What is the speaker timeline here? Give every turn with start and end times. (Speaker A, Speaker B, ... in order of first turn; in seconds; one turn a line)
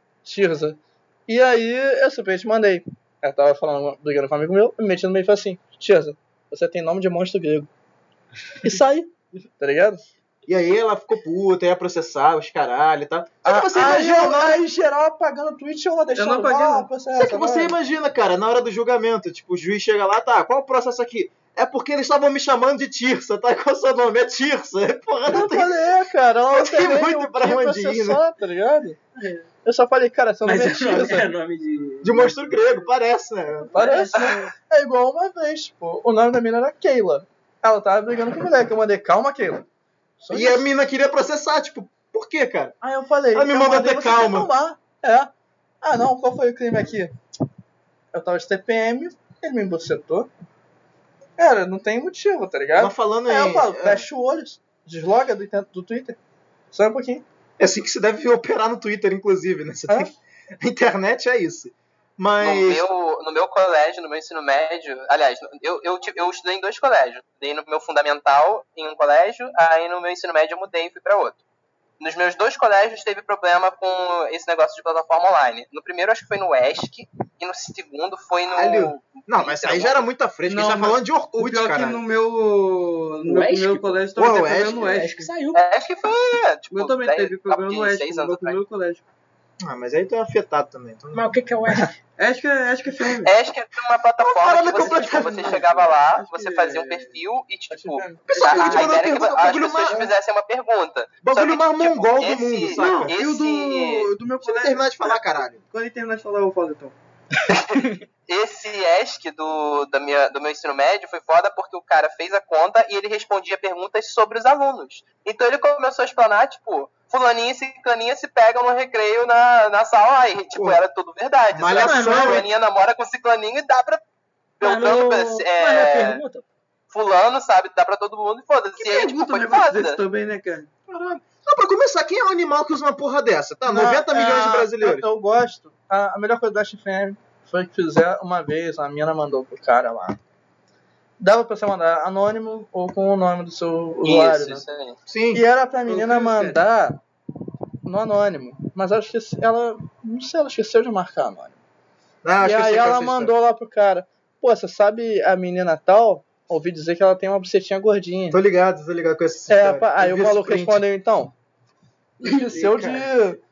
Speaker A: 0.2-7.7
Speaker A: 8.6-10.0
Speaker B: 10.5-14.6
Speaker A: 13.4-17.8
Speaker C: 16.1-16.9
Speaker B: 17.1-25.8
Speaker A: 25.3-29.0
Speaker B: 26.5-28.2
Speaker D: 29.1-29.5
Speaker A: 29.6-31.3
Speaker D: 30.4-32.6
Speaker B: 32.0-33.7
Speaker D: 33.6-34.5
Speaker A: 33.7-39.6
Speaker A: 40.2-40.6
Speaker B: 40.3-42.7
Speaker A: 42.8-45.3
Speaker B: 43.3-44.5
Speaker A: 45.8-47.1
Speaker A: 48.1-50.3
Speaker A: 51.4-56.2
Speaker B: 52.8-54.0
Speaker A: 56.7-57.2
Speaker B: 57.6-62.8
Speaker E: 62.4-71.4
Speaker E: 72.0-80.0
Speaker B: 78.5-82.0
Speaker C: 80.5-85.3
Speaker D: 83.2-84.0
Speaker B: 84.2-84.9
Speaker D: 84.7-85.6
Speaker E: 85.5-88.6
Speaker C: 86.7-89.0
Speaker B: 89.6-91.3
Speaker D: 91.1-92.0
Speaker C: 92.2-93.3
Speaker E: 93.2-104.1
Speaker B: 94.2-95.8
Speaker C: 94.8-97.2
Speaker A: 97.7-98.3
Speaker B: 98.3-100.1
Speaker C: 98.3-98.9
Speaker B: 101.2-103.2
Speaker C: 102.8-106.9
Speaker B: 104.4-105.6
Speaker E: 107.5-124.0
Speaker B: 120.5-120.8
Speaker B: 121.5-122.5
Speaker E: 124.6-126.2
Speaker D: 124.6-126.5
Speaker E: 126.9-130.0
Speaker C: 128.8-130.7
Speaker B: 130.9-135.1
Speaker A: 133.7-140.2
Speaker A: 141.2-144.6
Speaker E: 144.0-145.0
Speaker B: 145.1-145.4
Speaker A: 145.3-147.0
Speaker C: 145.9-146.6
Speaker A: 147.8-151.6
Speaker B: 152.2-153.3
Speaker A: 152.4-158.4
Speaker B: 158.3-160.8
Speaker A: 159.5-161.3
Speaker A: 162.2-163.4
Speaker B: 162.3-163.0